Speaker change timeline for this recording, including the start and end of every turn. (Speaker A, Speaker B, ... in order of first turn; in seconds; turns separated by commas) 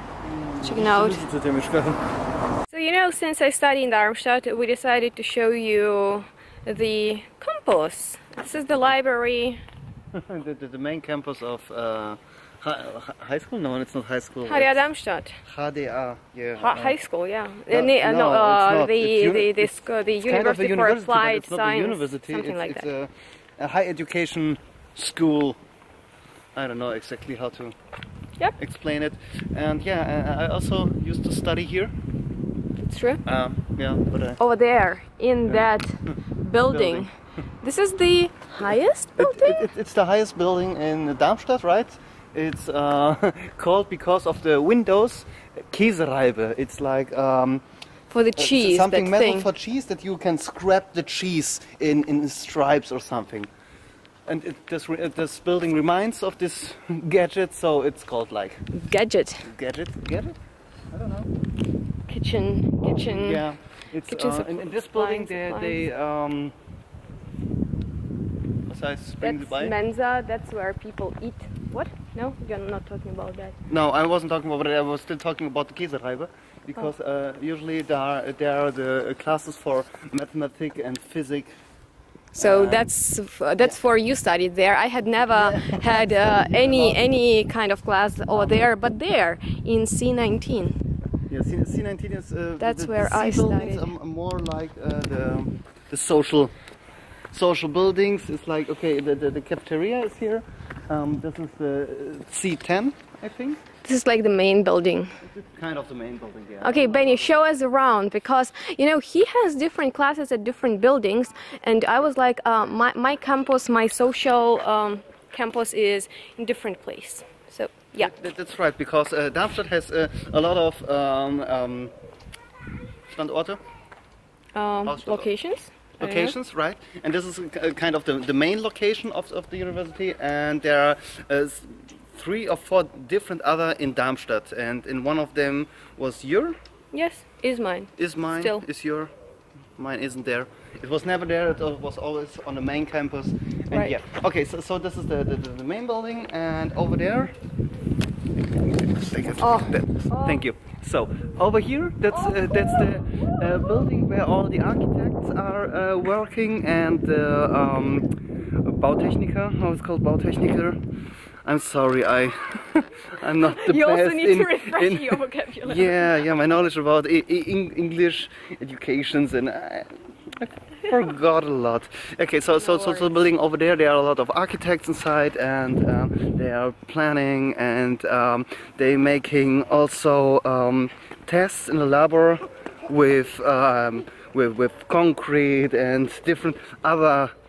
Speaker A: 0.2-2.0, Speaker B: 0.6-1.3, Speaker B: 2.7-9.6, Speaker A: 10.1-14.8, Speaker B: 14.4-15.4, Speaker A: 15.4-17.0, Speaker B: 16.6-22.9, Speaker A: 17.7-25.6, Speaker A: 26.6-27.8, Speaker A: 28.6-31.9, Speaker B: 32.8-33.2, Speaker A: 33.2-34.4, Speaker B: 34.4-39.7, Speaker A: 35.5-36.2, Speaker A: 36.7-37.1, Speaker A: 39.2-47.6, Speaker B: 48.1-49.5, Speaker A: 48.4-53.5, Speaker A: 54.2-58.6, Speaker B: 58.7-59.5, Speaker A: 59.4-60.3, Speaker A: 60.9-61.3, Speaker B: 62.1-63.5, Speaker A: 62.8-66.5, Speaker B: 64.1-65.8, Speaker A: 68.7-69.8, Speaker B: 69.2-73.6, Speaker A: 73.7-81.5, Speaker B: 82.3-90.8, Speaker A: 82.4-82.9, Speaker A: 85.2-87.0, Speaker A: 88.3-88.7, Speaker A: 91.3-96.5, Speaker B: 92.6-93.9, Speaker A: 97.3-103.6, Speaker B: 103.8-105.2, Speaker A: 105.2-107.4, Speaker B: 106.6-118.1, Speaker A: 118.0-121.9, Speaker A: 123.1-123.6, Speaker B: 124.5-126.3, Speaker A: 124.9-125.3, Speaker A: 126.0-136.6, Speaker B: 136.9-138.6, Speaker A: 138.0-139.1, Speaker A: 139.8-147.3, Speaker B: 143.7-144.0, Speaker A: 148.8-158.1, Speaker B: 149.4-150.4, Speaker B: 152.1-152.9, Speaker A: 158.6-160.8, Speaker A: 161.4-187.3, Speaker B: 163.4-166.1, Speaker B: 172.5-173.2